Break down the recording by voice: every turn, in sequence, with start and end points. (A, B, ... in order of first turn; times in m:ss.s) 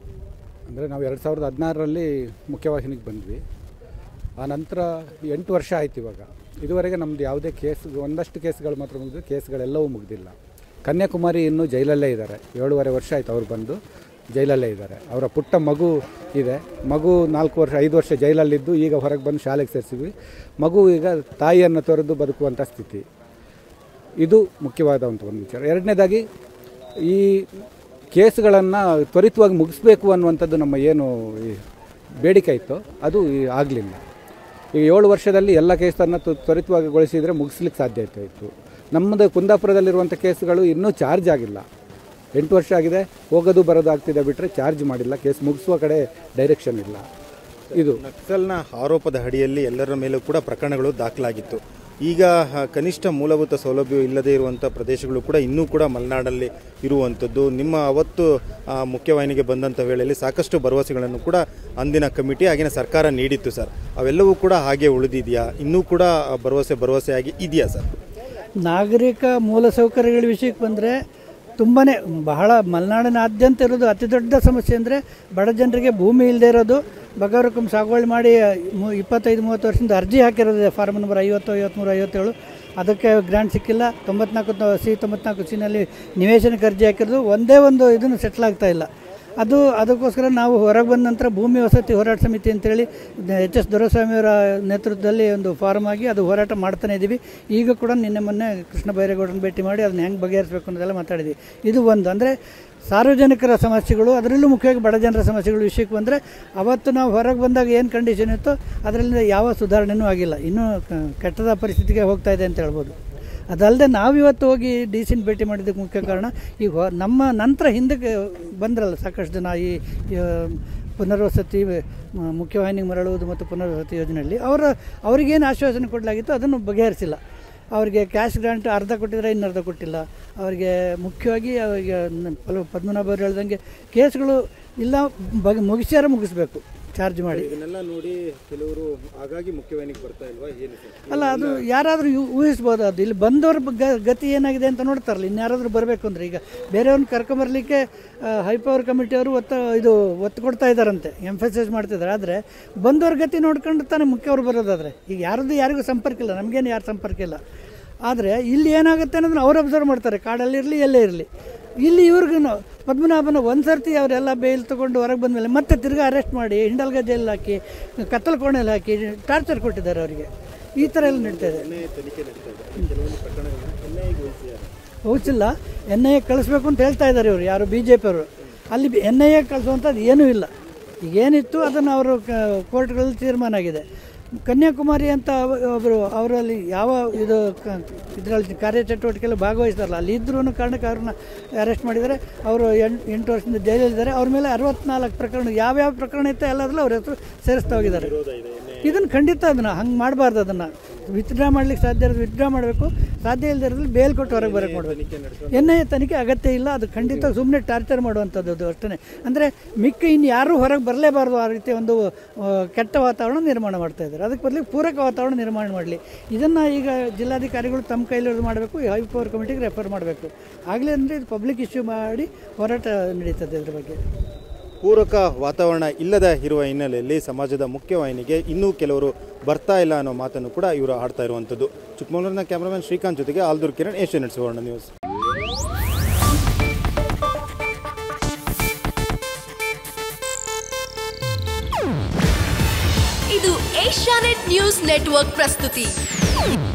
0:00.7-0:03.4 A
0:04.4-0:13.8 A
0:14.3-0:23.0 A
0:24.2-0:26.2 A
0:27.0-0:27.6 A
0:28.1-0:31.6 A
0:32.2-0:34.0 A
0:34.7-0:41.6 A
0:42.4-0:47.0 A
0:47.7-0:48.0 A
0:47.8-1:07.9 B
1:08.6-1:10.9 C
1:11.6-1:28.9 C
1:29.4-1:42.3 C
1:42.9-1:52.9 C
1:53.5-2:07.2 C
2:07.7-2:17.5 C
2:17.3-2:21.6 B
2:21.1-2:37.4 C
2:38.0-2:41.3 C
2:41.8-2:51.6 C
2:50.8-2:54.7 B
2:55.1-3:00.5 C
3:01.0-3:03.8 C
3:04.4-3:18.1 C
3:17.7-3:19.0 B
3:18.8-3:25.0 C
3:24.2-3:25.8 B
3:25.5-3:44.0 C
3:44.8-3:54.9 B
4:03.3-4:06.0 D